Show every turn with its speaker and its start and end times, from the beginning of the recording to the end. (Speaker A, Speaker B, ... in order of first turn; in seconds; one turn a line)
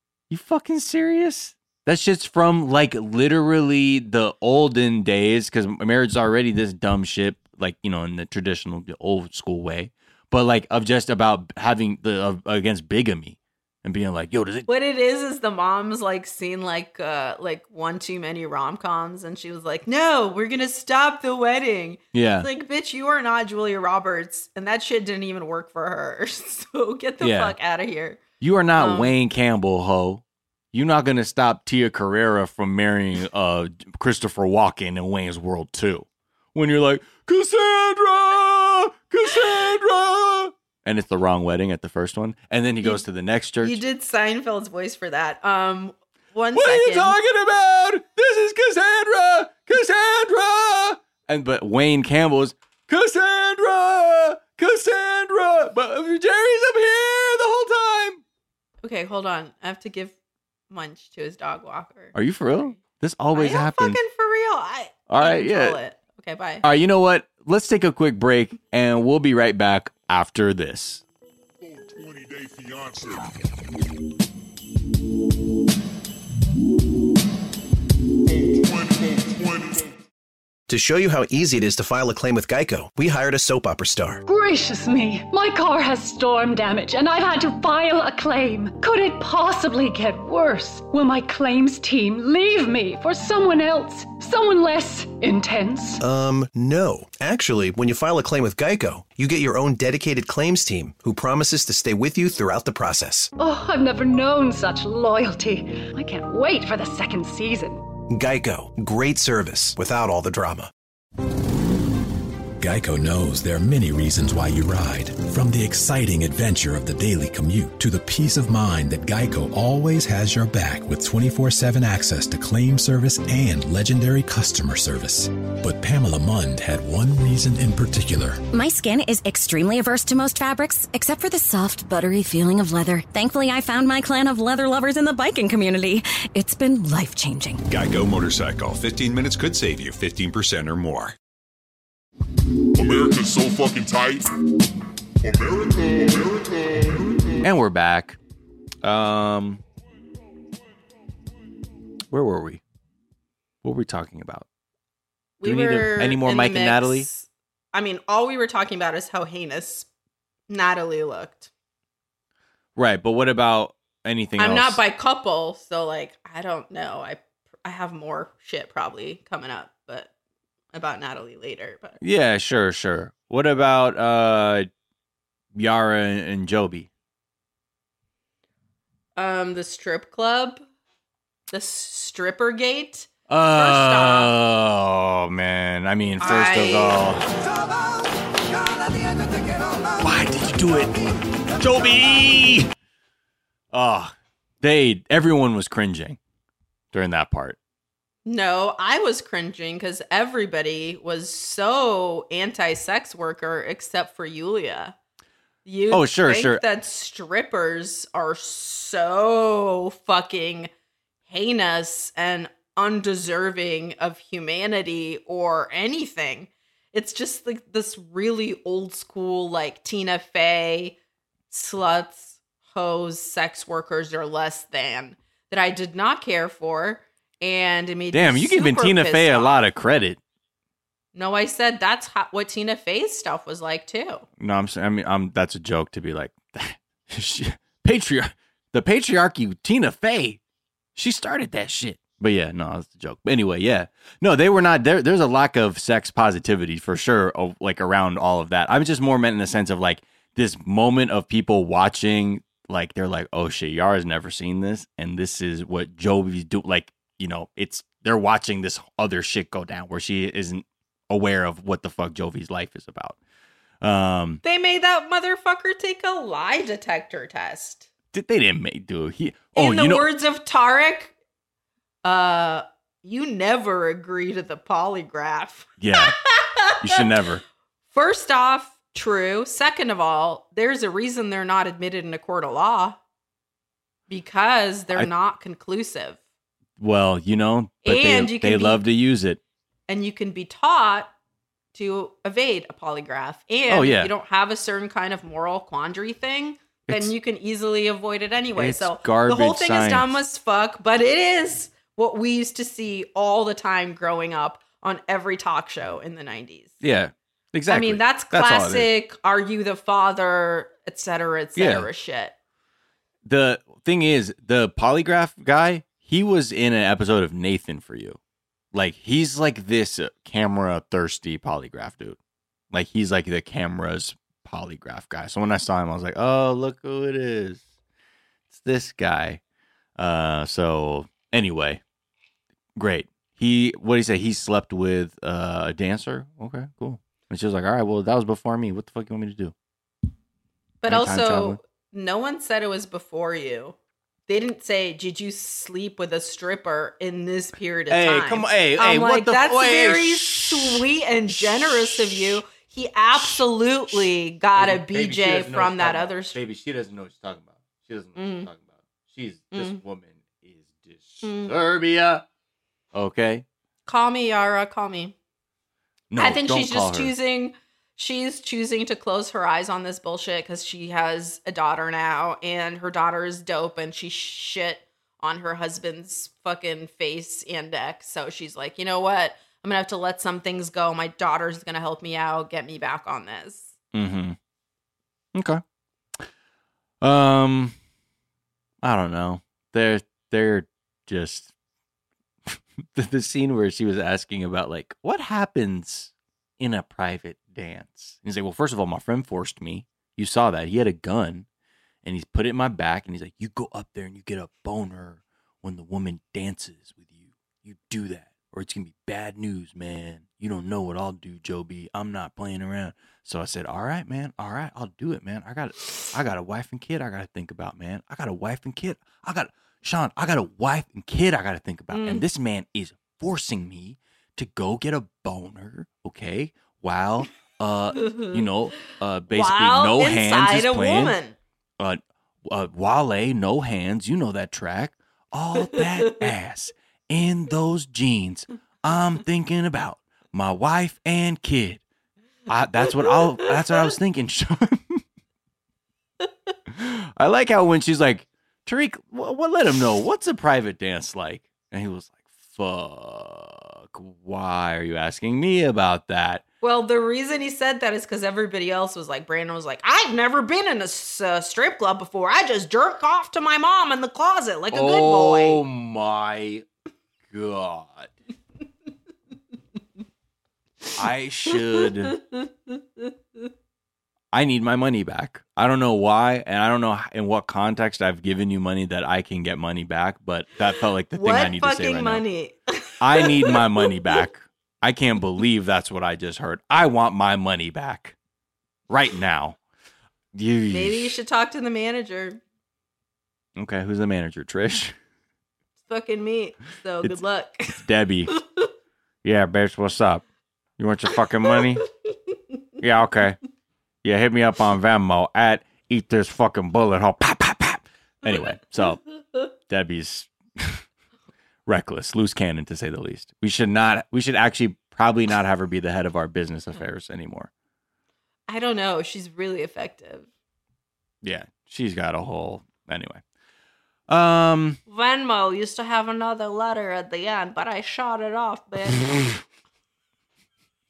Speaker A: 0.3-14.7
Speaker B: 14.7-28.2
Speaker A: 22.1-22.5
Speaker A: 27.2-27.5
Speaker A: 28.4-43.8
Speaker B: 28.8-29.1
Speaker B: 43.6-47.2
Speaker A: 46.5-58.2
Speaker B: 58.8-60.1
Speaker B: 60.7-62.7
Speaker A: 62.1-64.0
Speaker B: 63.3-66.6
Speaker A: 65.1-65.8
Speaker A: 66.6-71.0
Speaker C: 71.6-73.5
Speaker C: 78.3-79.9
Speaker D: 80.7-84.2
Speaker E: 84.2-96.0
Speaker D: 96.0-103.3
Speaker E: 103.4-107.8
Speaker D: 108.1-110.7
Speaker F: 112.6-128.4
Speaker G: 128.5-137.6
Speaker H: 137.7-141.1
Speaker C: 142.7-144.3
Speaker C: 145.2-147.4
Speaker A: 147.4-148.2
Speaker A: 148.8-149.6
Speaker A: 152.1-152.6
Speaker A: 153.6-154.4
Speaker B: 155.4-159.9
Speaker A: 155.4-157.1
Speaker B: 160.5-161.5
Speaker A: 162.8-164.8
Speaker B: 164.4-170.1
Speaker B: 170.7-172.0
Speaker A: 172.0-174.7
Speaker A: 175.5-176.9
Speaker B: 179.2-180.6
Speaker B: 181.5-184.3
Speaker A: 183.3-187.2
Speaker B: 186.2-187.0
Speaker A: 190.0-191.0
Speaker A: 191.5-192.7
Speaker A: 193.7-196.2
Speaker A: 196.9-197.6
Speaker B: 198.2-204.9
Speaker B: 205.6-210.7
Speaker A: 205.9-206.6
Speaker B: 211.3-221.0
Speaker B: 221.5-229.6
Speaker A: 228.1-230.2
Speaker B: 231.1-234.2
Speaker A: 234.4-240.4
Speaker A: 240.9-263.2
Speaker A: 263.8-264.4
Speaker B: 264.4-267.9
Speaker A: 268.1-270.1
Speaker B: 269.5-271.1
Speaker B: 272.0-277.0
Speaker A: 275.8-276.2
Speaker A: 276.8-277.4
Speaker B: 277.9-283.0
Speaker B: 284.1-286.2
Speaker A: 286.8-289.4
Speaker B: 287.8-288.8
Speaker B: 289.9-291.1
Speaker B: 291.7-306.8
Speaker A: 293.7-294.1
Speaker A: 298.6-300.2
Speaker A: 306.8-308.9
Speaker B: 307.7-312.3
Speaker A: 311.6-311.9
Speaker A: 313.2-318.2
Speaker A: 318.7-322.2
Speaker A: 322.7-327.6
Speaker A: 328.5-329.4
Speaker A: 330.0-331.8
Speaker A: 332.8-339.5
Speaker B: 340.8-343.8
Speaker A: 340.8-341.6
Speaker B: 344.3-356.4
Speaker A: 347.9-352.4
Speaker A: 353.1-353.4
Speaker A: 354.6-362.2
Speaker B: 358.1-358.5
Speaker B: 359.5-359.8
Speaker B: 361.2-361.5
Speaker A: 362.9-363.4
Speaker B: 363.9-365.1
Speaker A: 366.1-367.1
Speaker B: 366.2-383.8
Speaker A: 383.9-384.4
Speaker A: 385.3-385.6
Speaker A: 387.0-387.7
Speaker A: 388.8-391.5
Speaker A: 392.5-401.4
Speaker A: 402.0-431.1
Speaker B: 421.9-422.2
Speaker B: 429.3-431.4
Speaker A: 431.8-441.8
Speaker B: 435.6-436.2
Speaker A: 442.5-445.0
Speaker A: 446.7-456.4
Speaker B: 456.6-465.6
Speaker A: 464.7-466.6
Speaker A: 467.3-468.1
Speaker A: 470.9-472.2
Speaker A: 474.3-482.2
Speaker B: 481.1-484.2
Speaker A: 483.0-488.1
Speaker A: 488.9-489.6
Speaker A: 490.3-491.1
Speaker B: 490.7-492.4
Speaker A: 493.6-494.9
Speaker B: 495.9-497.8
Speaker A: 497.0-498.4
Speaker A: 499.2-500.2
Speaker A: 500.8-501.8
Speaker A: 502.8-503.4
Speaker A: 504.0-509.0
Speaker A: 509.7-510.8
Speaker A: 511.7-517.5
Speaker B: 518.5-520.3
Speaker A: 521.2-523.2
Speaker A: 524.1-524.8
Speaker B: 524.9-529.4